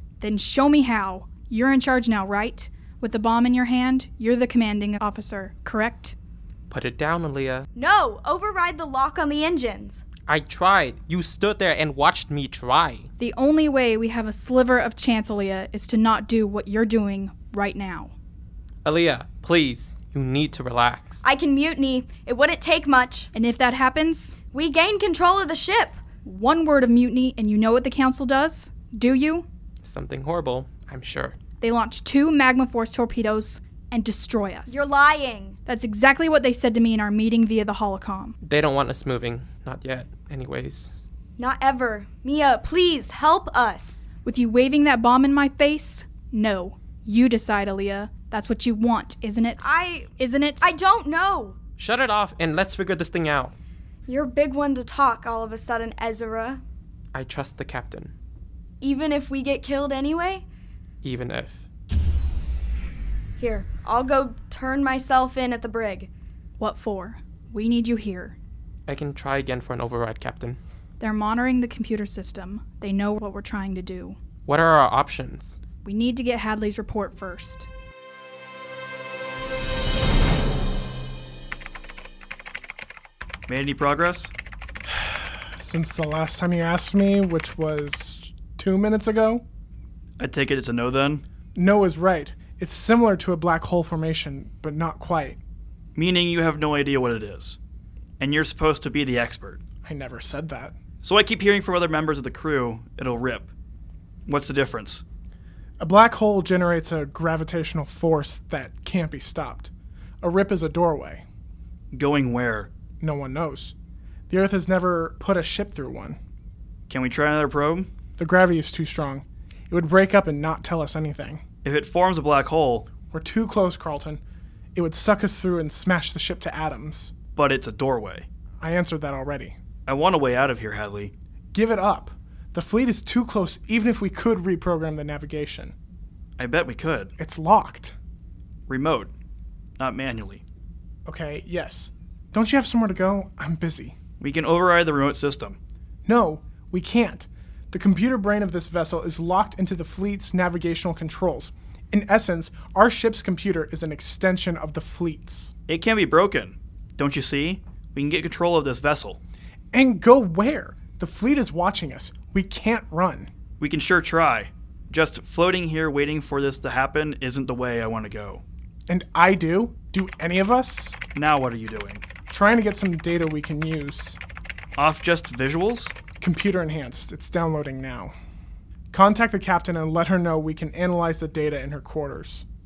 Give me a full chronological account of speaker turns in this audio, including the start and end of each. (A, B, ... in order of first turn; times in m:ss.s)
0:00.2-0:06.1 A
0:06.7-0:07.7 B
0:07.7-0:10.0 C
0:10.3-0:13.1 B
0:13.2-0:18.1 A
0:18.8-0:21.2 B
0:21.2-0:23.3 C
0:23.3-0:24.4 A
0:24.5-0:26.0 C
0:26.2-0:29.5 A
0:29.8-0:31.4 B
0:31.6-0:34.9 A
0:34.7-0:35.6 C
0:35.6-0:38.4 A
0:38.4-0:40.9 B
0:41.4-0:44.1 C
0:44.2-0:50.6 A
0:49.6-0:51.6 C
0:51.8-0:53.5 B
0:54.1-0:56.6 C
0:57.1-0:58.1 B
0:58.8-1:00.4 C
1:01.0-1:01.6 B
1:03.4-1:06.1 C
1:06.6-1:08.4 A
1:08.9-1:10.6 B
1:11.0-1:14.2 A
1:14.4-1:15.6 B
1:15.8-1:17.7 A
1:23.5-1:24.3 D
1:24.9-1:29.4 E
1:30.2-1:31.2 D
1:31.6-1:35.4 E
1:36.0-1:37.6 D
1:38.2-1:39.6 D
1:39.8-1:40.8 E
1:41.0-1:43.5 D
1:44.3-1:45.0 D
1:45.8-1:51.2 E
1:51.9-1:52.7 D
1:53.0-1:53.7 E
1:54.3-1:56.2 E
1:56.9-1:57.9 D
1:58.2-2:01.4 E
2:01.6-2:02.9 D
2:03.1-2:04.2 E
2:04.7-2:07.1 E
2:07.4-2:08.3 D
2:08.6-2:09.6 E
2:09.9-2:11.1 D
2:11.5-2:15.7 E
2:16.4-2:17.1 D
2:17.2-2:17.9 E
2:18.7-2:19.1 D
2:19.8-2:20.4 D
2:21.1-2:24.0 E
2:24.2-2:25.6 D
2:26.1-2:35.5 E
2:35.7-2:39.2 D
2:39.7-2:43.3 E
2:43.6-2:48.4 D
2:48.9-2:51.0 E
2:51.1-2:52.0 D
2:52.3-2:54.2 E
2:54.8-2:55.9 D
2:56.2-2:58.1 E
2:58.9-3:02.4 E